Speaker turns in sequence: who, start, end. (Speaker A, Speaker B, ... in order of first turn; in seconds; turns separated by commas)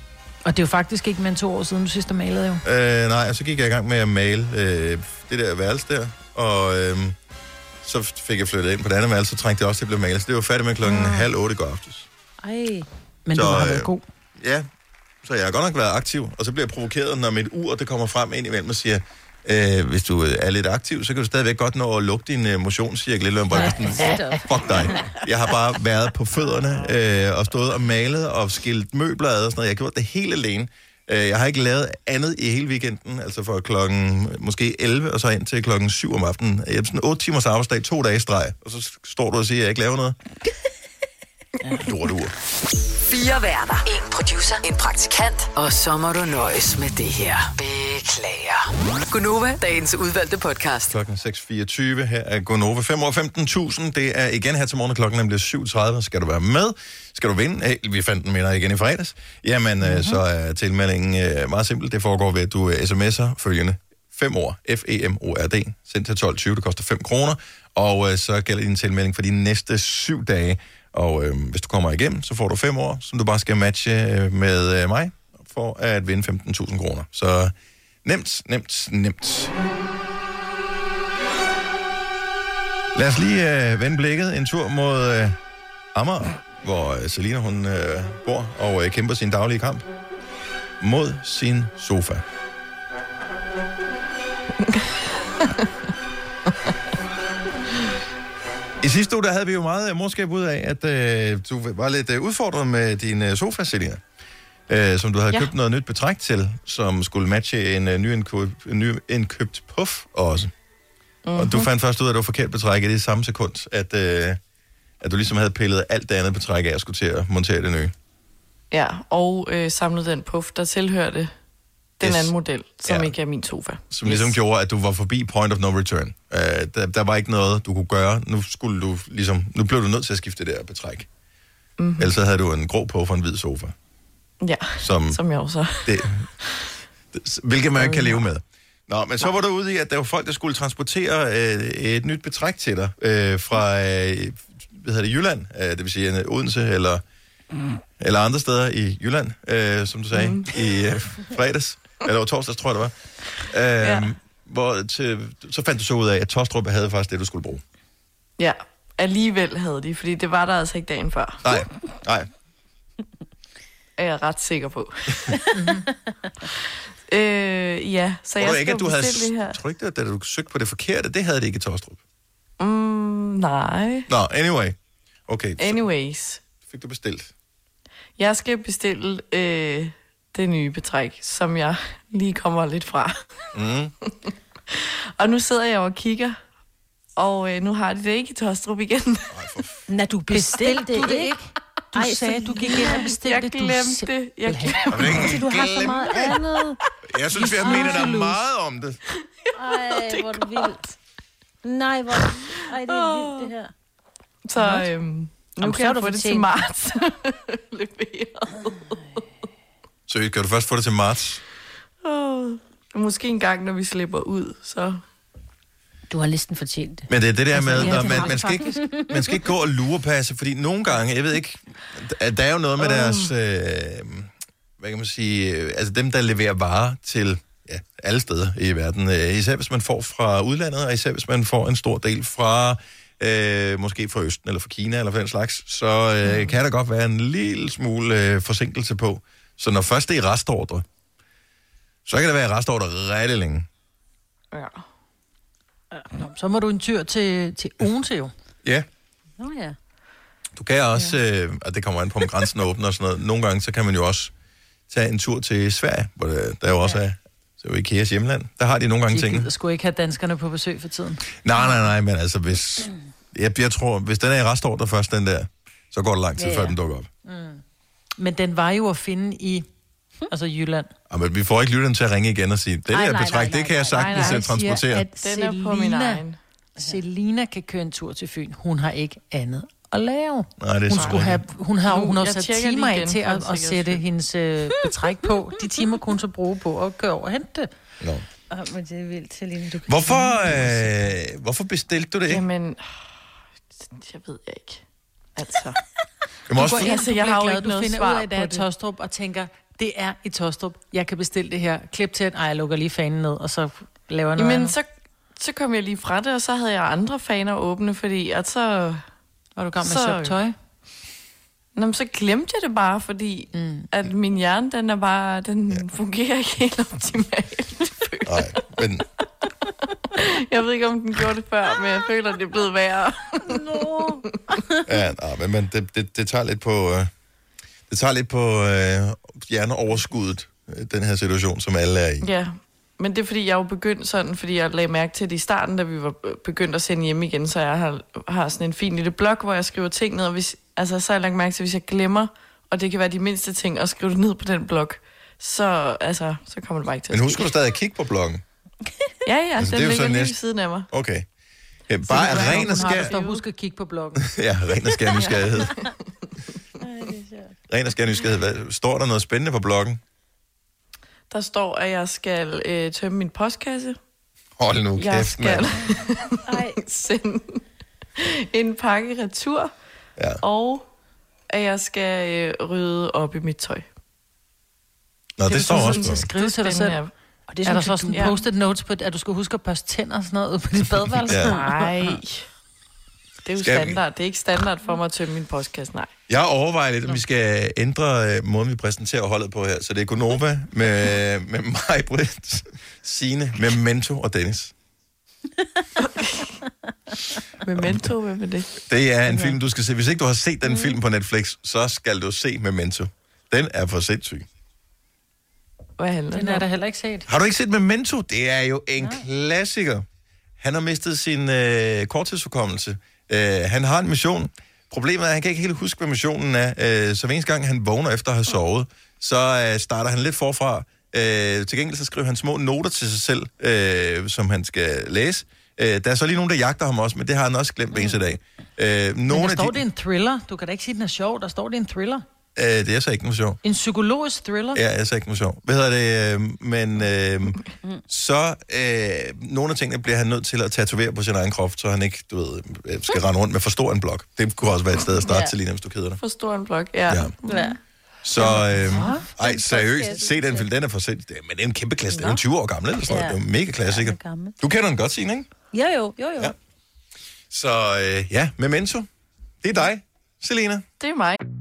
Speaker A: 0.4-2.6, Speaker B: 2.6-7.1, Speaker B: 7.8-12.1, Speaker C: 10.8-11.2, Speaker C: 12.4-12.9, Speaker A: 13.2-14.0, Speaker B: 13.3-14.7, Speaker B: 15.2-40.2, Speaker C: 23.5-25.1, Speaker B: 41.7-42.3, Speaker D: 43.0-50.9, Speaker B: 50.9-79.5, Speaker A: 59.8-60.1, Speaker B: 82.9-85.4, Speaker B: 85.9-89.9, Speaker B: 90.8-92.2, Speaker E: 94.6-94.9, Speaker E: 95.4-95.7, Speaker B: 98.8-104.0, Speaker B: 104.7-110.5, Speaker E: 111.2-111.7, Speaker B: 111.3-114.4, Speaker B: 115.0-117.9, Speaker E: 118.7-121.3, Speaker E: 122.0-124.3, Speaker B: 122.0-122.3, Speaker B: 122.8-123.1, Speaker B: 123.9-131.1, Speaker E: 131.8-132.1, Speaker B: 132.0-133.7, Speaker E: 134.4-136.7, Speaker B: 134.8-135.2, Speaker B: 135.8-136.3, Speaker B: 137.1-147.0, Speaker E: 137.8-138.2, Speaker B: 148.0-157.6, Speaker E: 150.1-150.5, Speaker E: 158.4-161.6, Speaker B: 161.4-162.3, Speaker E: 164.0-165.3, Speaker A: 165.5-165.8, Speaker E: 167.1-169.6, Speaker B: 168.4-172.0, Speaker E: 172.6-174.1, Speaker B: 174.1-174.8, Speaker B: 175.3-175.8, Speaker E: 175.6-176.4, Speaker B: 176.7-177.3, Speaker E: 178.2-183.3, Speaker B: 183.5-183.9, Speaker E: 184.7-186.4, Speaker E: 187.2-189.4, Speaker B: 189.3-189.8, Speaker C: 189.9-193.0, Speaker A: 190.3-194.8, Speaker E: 193.1-195.3, Speaker B: 194.9-196.3, Speaker C: 195.1-196.8, Speaker B: 197.1-199.0, Speaker A: 197.3-198.4, Speaker C: 197.5-198.0, Speaker E: 199.4-200.8, Speaker C: 199.5-200.8, Speaker C: 201.6-203.7, Speaker E: 202.9-203.5, Speaker E: 204.4-209.2, Speaker C: 205.6-206.5, Speaker B: 210.1-211.4, Speaker E: 212.0-215.0, Speaker C: 216.1-219.3, Speaker B: 217.1-240.8, Speaker A: 217.5-218.8, Speaker E: 222.8-223.3, Speaker E: 236.2-236.6, Speaker B: 242.1-243.7, Speaker E: 244.5-244.8, Speaker A: 245.9-248.3, Speaker C: 249.4-249.8, Speaker B: 250.5-254.3, Speaker B: 254.9-259.5, Speaker A: 259.1-261.4, Speaker B: 261.4-267.1, Speaker C: 266.4-266.7, Speaker A: 267.2-267.6, Speaker A: 268.2-269.6, Speaker A: 270.3-270.9, Speaker B: 271.1-275.1, Speaker C: 272.9-274.4, Speaker E: 273.9-274.4, Speaker A: 274.1-276.2, Speaker E: 275.2-276.4, Speaker A: 276.8-287.7, Speaker B: 280.6-281.4, Speaker E: 281.9-284.0, Speaker B: 288.0-288.2, Speaker C: 288.5-290.9, Speaker B: 289.9-292.4, Speaker E: 292.3-293.1, Speaker E: 293.8-294.8, Speaker E: 295.4-295.8, Speaker B: 296.5-296.9, Speaker E: 296.5-298.6, Speaker A: 296.6-304.7, Speaker E: 304.4-309.1, Speaker A: 309.6-310.5, Speaker E: 309.8-310.4, Speaker E: 311.7-318.6, Speaker A: 313.5-313.9, Speaker B: 318.2-319.0, Speaker E: 320.2-323.8, Speaker C: 323.5-324.8, Speaker B: 324.9-327.1, Speaker B: 327.9-332.3, Speaker E: 332.2-347.5, Speaker B: 347.1-348.4, Speaker E: 349.2-350.9, Speaker B: 349.6-350.3, Speaker B: 350.9-351.2, Speaker B: 351.9-353.1, Speaker A: 352.1-354.2, Speaker C: 352.2-353.4, Speaker B: 354.2-355.8, Speaker E: 355.1-355.7, Speaker C: 356.8-357.5, Speaker B: 357.7-360.0, Speaker E: 361.3-364.0, Speaker B: 364.6-365.7, Speaker E: 365.0-367.6, Speaker C: 366.4-366.8, Speaker E: 368.2-369.7, Speaker E: 370.4-370.8, Speaker E: 371.5-373.9, Speaker B: 375.4-376.2, Speaker A: 375.5-377.0, Speaker E: 375.5-377.1, Speaker C: 377.5-378.4, Speaker A: 377.6-381.9, Speaker E: 378.1-378.4, Speaker B: 381.3-381.5, Speaker E: 381.4-382.5, Speaker E: 383.4-386.1, Speaker B: 383.6-384.0, Speaker B: 386.3-394.7, Speaker E: 396.2-396.4, Speaker E: 397.6-398.7, Speaker B: 397.8-398.0, Speaker B: 398.9-404.4, Speaker A: 399.3-399.5, Speaker C: 400.6-401.0, Speaker E: 406.0-406.6, Speaker A: 406.3-407.3, Speaker B: 407.3-410.0, Speaker B: 410.6-429.8, Speaker A: 429.3-432.2, Speaker B: 432.5-433.6, Speaker A: 433.6-434.8, Speaker B: 434.7-446.2, Speaker C: 445.2-445.5, Speaker E: 446.2-447.7, Speaker C: 447.4-447.8, Speaker B: 448.2-455.5, Speaker C: 448.4-450.6, Speaker A: 448.9-449.2, Speaker C: 452.1-452.4, Speaker C: 453.0-454.6, Speaker C: 455.7-456.5, Speaker B: 457.5-459.1, Speaker B: 459.6-460.8, Speaker E: 461.0-461.4